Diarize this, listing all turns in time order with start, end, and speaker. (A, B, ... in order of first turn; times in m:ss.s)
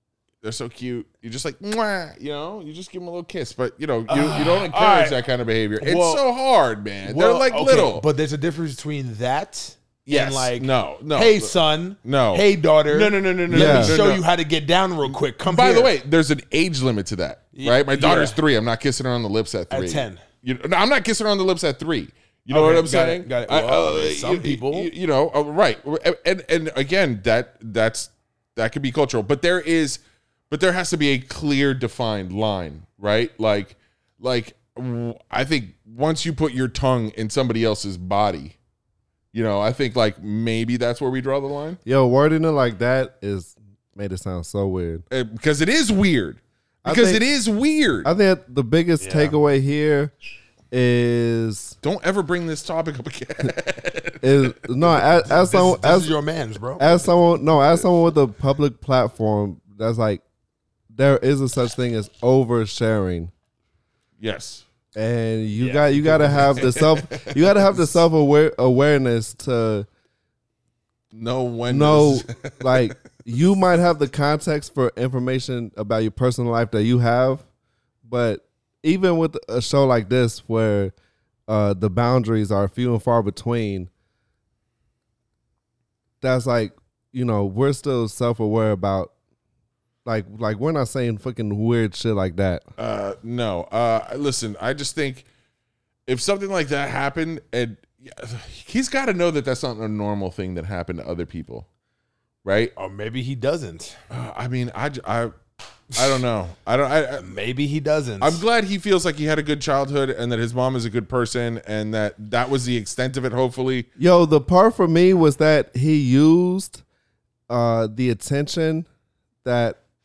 0:00.4-0:08.0 A
0:04.1-0:05.2 B
0:05.8-0:06.2 B
0:07.0-0:15.9 B
0:10.1-0:14.2 A
0:13.5-0:14.0 C
0:15.4-0:38.6 A
0:17.5-0:18.4 B
0:19.7-0:20.2 B
0:22.5-0:24.9 B
0:39.3-0:41.8 A
0:41.8-0:45.0 C
0:45.1-0:48.1 A
0:46.8-0:47.2 C
0:48.0-0:50.1 C
0:49.0-0:49.4 B
0:50.7-0:51.8 C
0:51.8-0:55.0 A
0:54.2-0:56.1 C
0:55.2-0:57.0 B
0:56.8-1:00.2 C
1:00.9-1:03.3 C
1:04.2-1:04.6 A
1:04.9-1:09.9 C
1:05.6-1:06.8 B
1:06.4-1:07.8 A
1:11.1-1:12.9 A
1:11.7-1:17.4 C
1:18.0-1:20.9 C
1:21.5-1:23.9 C
1:26.2-1:29.1 C
1:30.0-1:32.6 C
1:32.8-1:35.2 A
1:36.1-1:41.7 A
1:42.4-1:42.7 A
1:42.8-1:44.0 B
1:44.1-1:45.3 A
1:45.9-1:47.3 A
1:47.2-1:48.4 B
1:48.2-1:53.9 A
1:54.0-1:56.8 C
1:57.5-1:58.9 C
1:59.4-1:59.8 C